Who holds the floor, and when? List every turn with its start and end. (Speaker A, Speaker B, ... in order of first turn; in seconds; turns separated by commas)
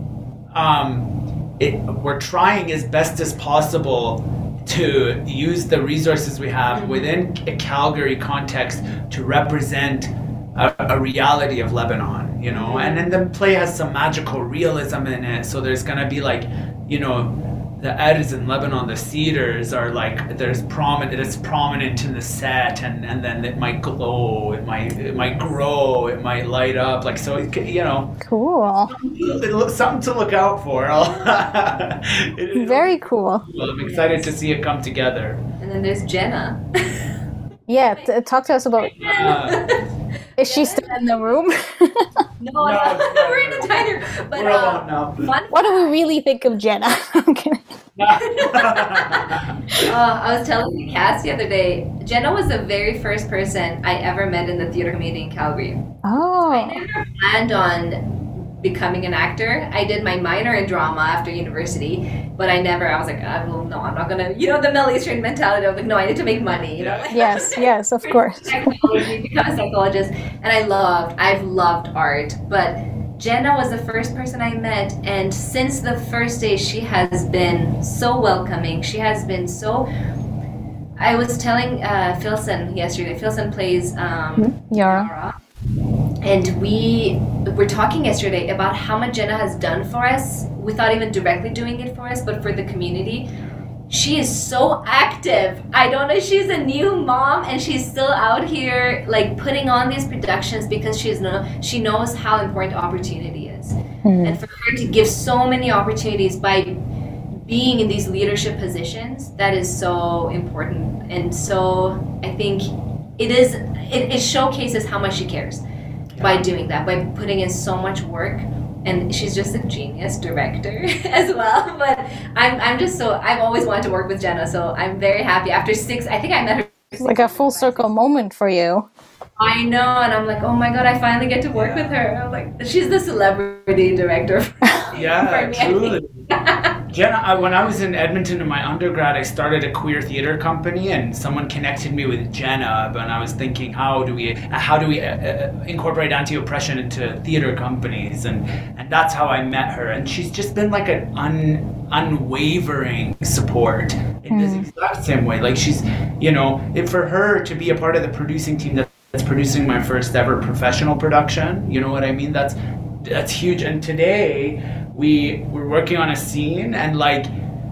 Speaker A: 0.5-28.1, Speaker B: 6.7-7.1, Speaker B: 12.5-13.1, Speaker C: 28.2-28.9, Speaker A: 28.9-35.4, Speaker B: 30.9-31.4, Speaker C: 32.5-33.5, Speaker B: 33.8-34.3, Speaker B: 35.6-37.0, Speaker C: 37.7-39.0, Speaker B: 38.8-39.8, Speaker A: 39.0-39.6, Speaker C: 40.4-42.0, Speaker B: 40.5-41.3, Speaker B: 42.4-45.9, Speaker A: 42.6-45.3, Speaker C: 45.5-47.6, Speaker A: 48.0-49.9, Speaker B: 48.1-55.9, Speaker C: 56.0-56.8, Speaker B: 56.5-79.9, Speaker A: 66.8-67.5, Speaker C: 67.1-68.8, Speaker B: 81.0-85.3, Speaker C: 84.4-85.1, Speaker B: 86.2-93.3, Speaker B: 93.9-106.7, Speaker C: 104.0-104.4, Speaker B: 107.4-115.6, Speaker A: 116.1-116.5, Speaker B: 116.2-127.9, Speaker C: 127.0-128.9, Speaker B: 129.4-136.7, Speaker A: 131.5-132.0, Speaker A: 134.9-136.1, Speaker A: 136.9-167.3, Speaker C: 154.3-154.7